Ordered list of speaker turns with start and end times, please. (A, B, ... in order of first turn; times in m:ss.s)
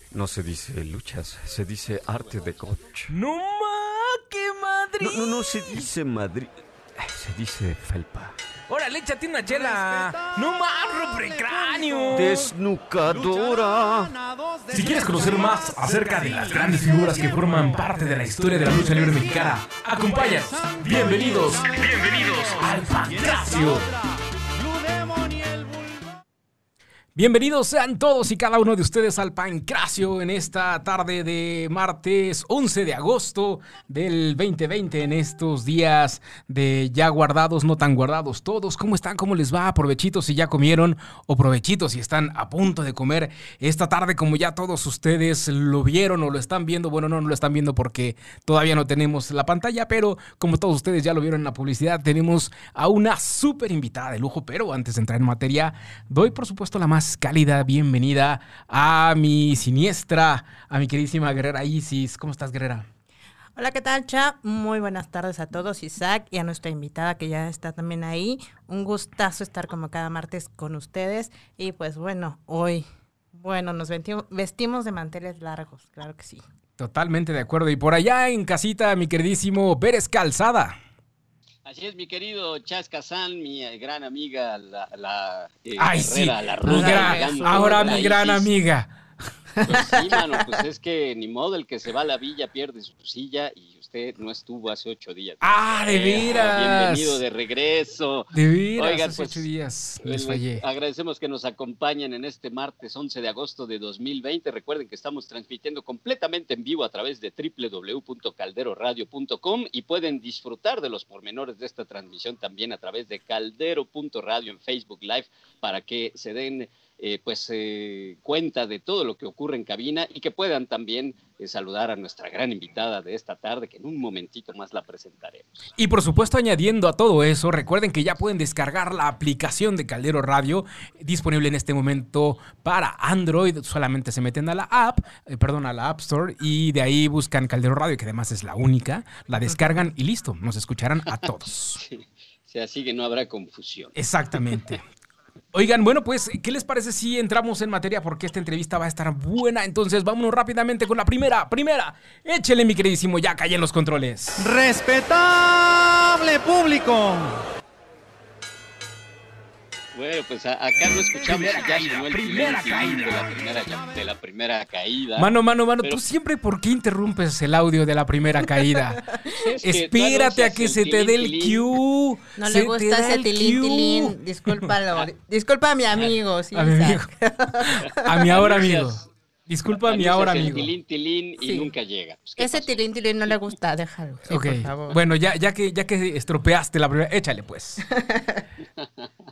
0:00.1-0:03.1 A
0:02.3-0:02.6 B
0:03.1-0:05.9 C
0:05.0-0:08.3 A
0:08.7-0:12.5 C
0:09.5-0:12.5 D
0:12.1-0:14.1 A
0:13.1-0:17.7 D
0:14.7-0:23.9 C
0:18.7-0:24.0 D
0:24.6-0:26.1 D
0:27.2-1:02.9 C
1:03.6-1:16.4 E
1:16.8-1:20.8 C
1:21.6-1:28.5 B
1:25.8-1:28.9 C
1:26.6-1:28.1 E
1:29.6-1:30.2 E
1:29.6-1:39.5 B
1:35.4-1:37.2 C
1:38.3-1:40.6 C
1:40.0-2:05.7 B
2:05.8-2:21.8 C
2:21.8-2:24.0 B
2:24.0-2:24.8 C
2:25.5-2:34.5 C
2:34.4-2:37.4 D
2:39.9-2:45.3 B
2:41.3-2:43.3 C
2:45.2-2:49.1 C
2:49.2-2:51.7 B
2:49.6-2:54.7 C
2:52.4-2:58.3 E
2:56.0-2:57.1 C
2:57.6-3:00.7 C
2:58.3-2:59.0 B
2:59.8-3:03.3 B
3:01.4-3:01.7 E
3:02.4-3:05.0 E
3:04.3-3:07.9 C
3:08.0-3:08.4 E
3:08.8-3:09.1 B